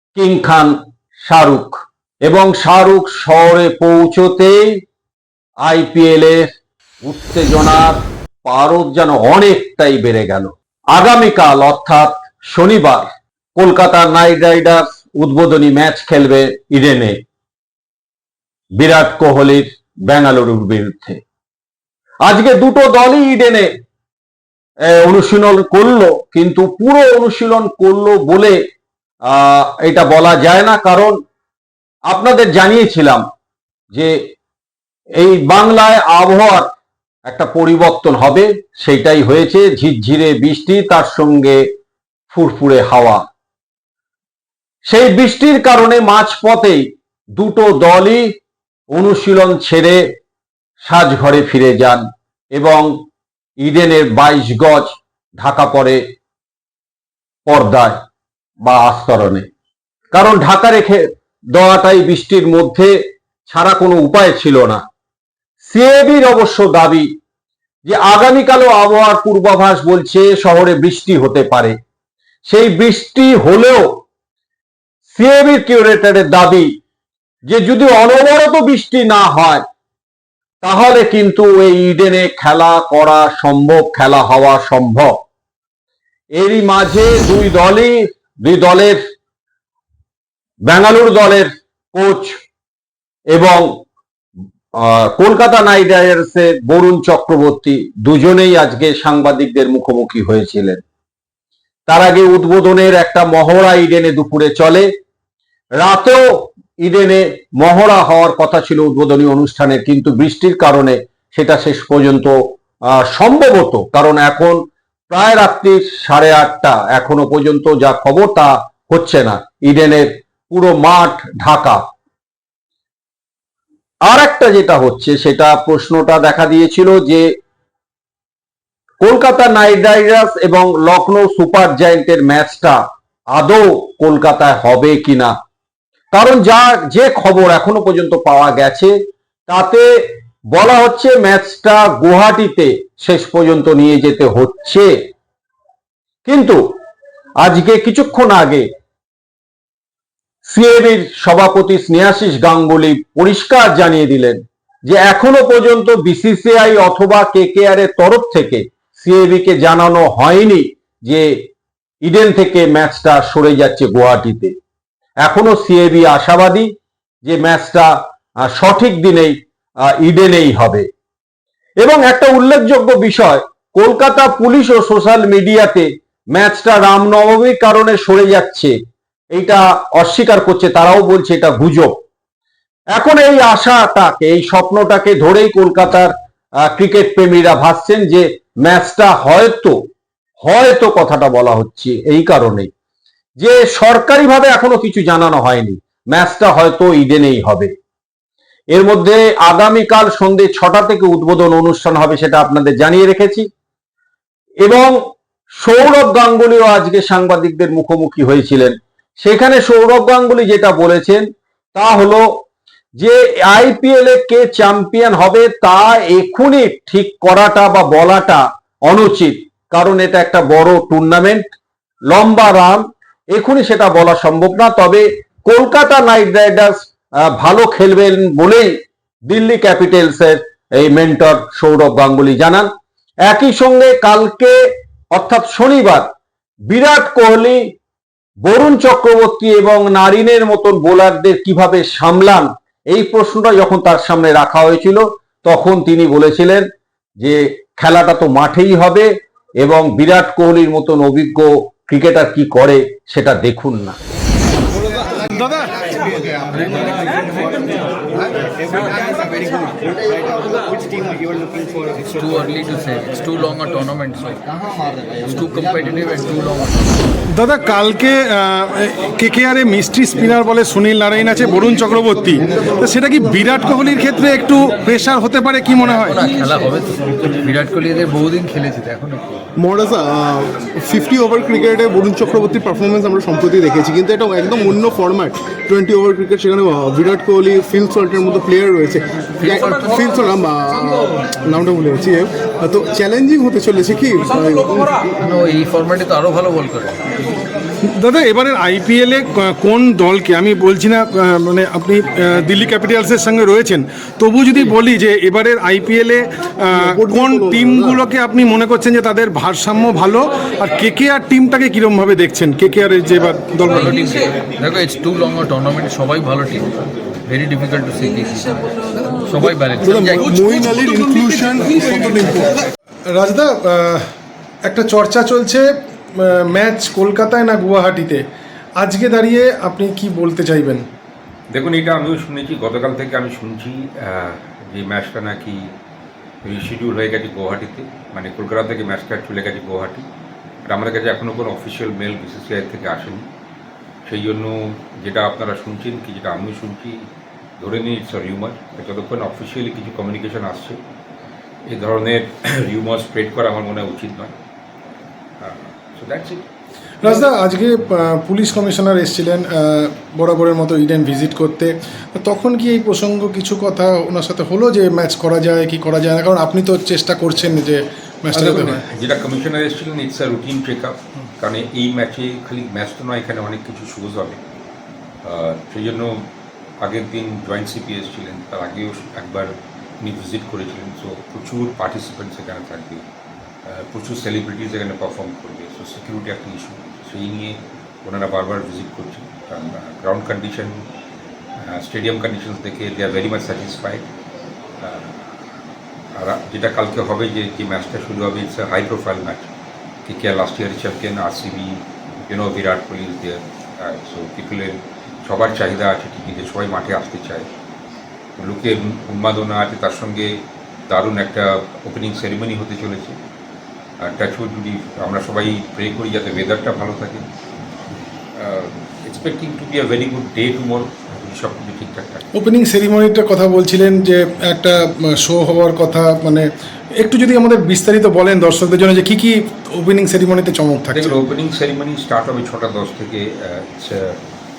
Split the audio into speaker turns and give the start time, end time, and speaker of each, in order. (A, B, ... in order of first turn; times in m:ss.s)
0:00.2-0:00.7 A
0:01.3-0:04.8 A
0:05.6-0:06.5 A
0:07.0-0:17.2 A
0:18.8-0:21.2 A
0:22.3-0:23.7 A
0:24.9-0:28.6 A
0:29.3-0:31.1 A
0:32.1-0:33.2 A
0:35.2-0:36.7 A
0:37.3-0:41.6 A
0:42.3-0:43.2 A
0:44.9-0:46.8 A
0:47.4-0:48.3 A
0:48.9-0:50.0 A
0:50.8-0:52.0 A
0:52.5-0:52.9 A
0:53.6-0:56.0 A
0:57.5-0:58.0 A
0:58.6-0:59.5 A
1:00.1-1:01.0 A
1:01.5-1:02.9 A
1:03.5-1:04.8 A
1:05.6-1:07.1 A
1:07.9-1:11.7 A
1:12.5-1:13.9 A
1:15.1-1:16.7 A
1:17.5-1:19.6 A
1:20.6-1:25.1 A
1:26.4-1:29.0 A
1:30.7-1:32.4 A
1:33.3-1:33.7 A
1:34.8-1:40.8 A
1:41.9-1:44.9 A
1:45.8-1:52.4 A
1:52.9-2:01.8 A
2:04.1-2:07.2 A
2:09.0-2:12.8 A
2:13.3-2:15.3 A
2:16.1-2:19.0 A
2:19.5-2:19.9 A
2:20.5-2:24.9 A
2:26.3-2:26.6 A
2:27.4-2:28.7 A
2:30.5-2:41.3 A
2:42.0-2:44.5 A
2:45.2-2:46.7 A
2:47.2-2:47.9 A
2:48.4-2:49.4 A
2:49.9-2:50.9 A
2:51.8-2:58.8 A
2:59.3-3:01.9 A
3:02.9-3:06.1 A
3:06.6-3:09.8 A
3:10.4-3:12.7 A
3:13.4-3:17.7 A
3:18.7-3:23.5 A
3:24.6-3:25.0 A
3:25.6-3:31.2 A
3:31.8-3:32.3 A
3:33.0-3:41.5 A
3:42.1-3:42.8 A
3:43.3-3:48.7 A
3:49.3-3:52.7 A
3:53.3-3:54.6 A
3:55.1-3:56.1 A
3:56.7-3:57.6 A
3:58.4-4:06.6 A
4:07.2-4:09.1 A
4:09.6-4:14.0 A
4:14.8-4:22.2 B
4:15.4-4:15.7 C
4:22.1-4:24.4 D
4:25.2-4:27.0 D
4:27.3-4:36.2 C
4:35.9-4:39.4 D
4:39.6-4:55.2 B
4:49.4-4:49.9 D
4:55.2-4:57.1 D
4:57.8-5:13.9 C
5:06.7-5:08.0 B
5:13.7-5:16.7 D
5:17.3-5:18.6 D
5:19.2-5:20.2 D
5:19.7-5:22.6 B
5:23.1-5:24.0 C
5:24.6-5:28.2 C
5:28.8-5:30.8 C
5:31.5-5:35.7 E
5:36.4-5:40.1 E
5:40.6-5:43.3 E
5:44.0-5:47.1 E
5:47.6-5:50.8 E
5:51.7-5:54.4 E
5:55.4-5:56.4 E
5:57.0-6:08.8 C
5:57.0-5:57.4 E
6:08.3-6:14.4 E
6:15.2-6:16.3 E
6:16.8-6:23.0 E
6:23.7-6:30.9 E
6:31.6-6:34.0 E
6:34.8-6:35.3 E
6:36.2-6:39.5 E
6:40.1-6:47.5 E
6:48.4-6:50.3 E
6:50.9-6:53.2 E
6:54.0-6:57.2 E
6:58.4-7:02.3 E
7:02.4-7:11.2 C
7:10.9-7:14.2 E